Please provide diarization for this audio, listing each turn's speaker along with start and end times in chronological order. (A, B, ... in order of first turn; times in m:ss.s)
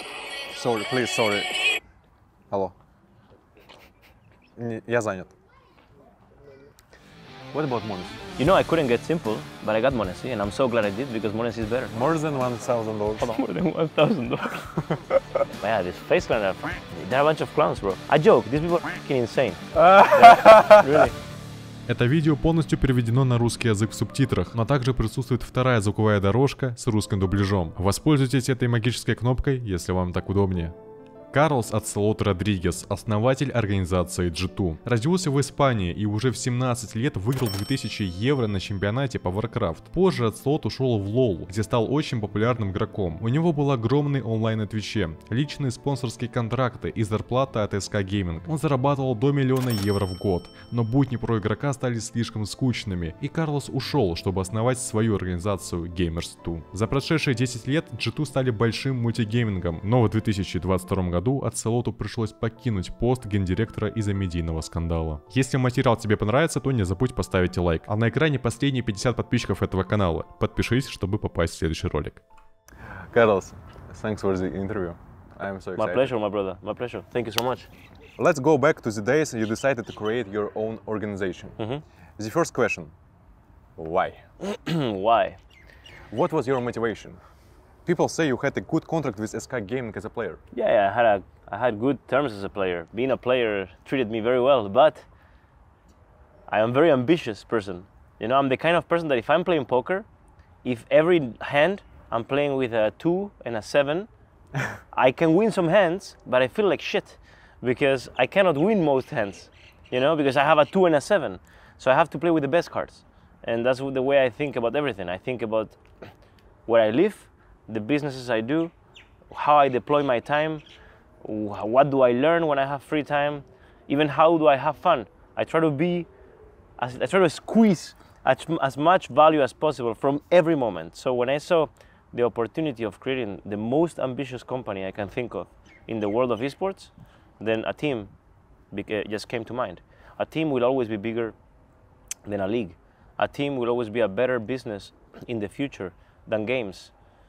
0:00.5-0:01.6 A
0:04.6-0:05.3 A
0:07.5-0:08.2 A
0:08.4-0:11.9 B
0:11.9-0:13.3 A
0:13.2-0:14.7 B
0:15.6-0:21.2 B
0:19.8-0:20.8 A
0:21.9-0:30.8 C
0:31.3-1:12.2 C
1:12.9-1:16.1 A
1:15.8-1:17.7 B
1:18.2-1:21.6 A
1:21.6-1:21.8 B
1:22.2-1:22.9 A
1:23.8-1:24.2 A
1:24.4-1:25.4 B
1:26.1-1:27.2 A
1:27.9-1:30.4 A
1:30.5-1:35.1 B
1:36.5-1:40.1 B
1:40.6-1:44.1 B
1:44.9-1:55.8 B
1:56.7-1:58.7 B
1:59.3-2:00.6 B
2:01.2-2:06.1 B
2:06.8-2:18.1 B
2:18.7-2:21.4 B
2:22.3-2:26.9 B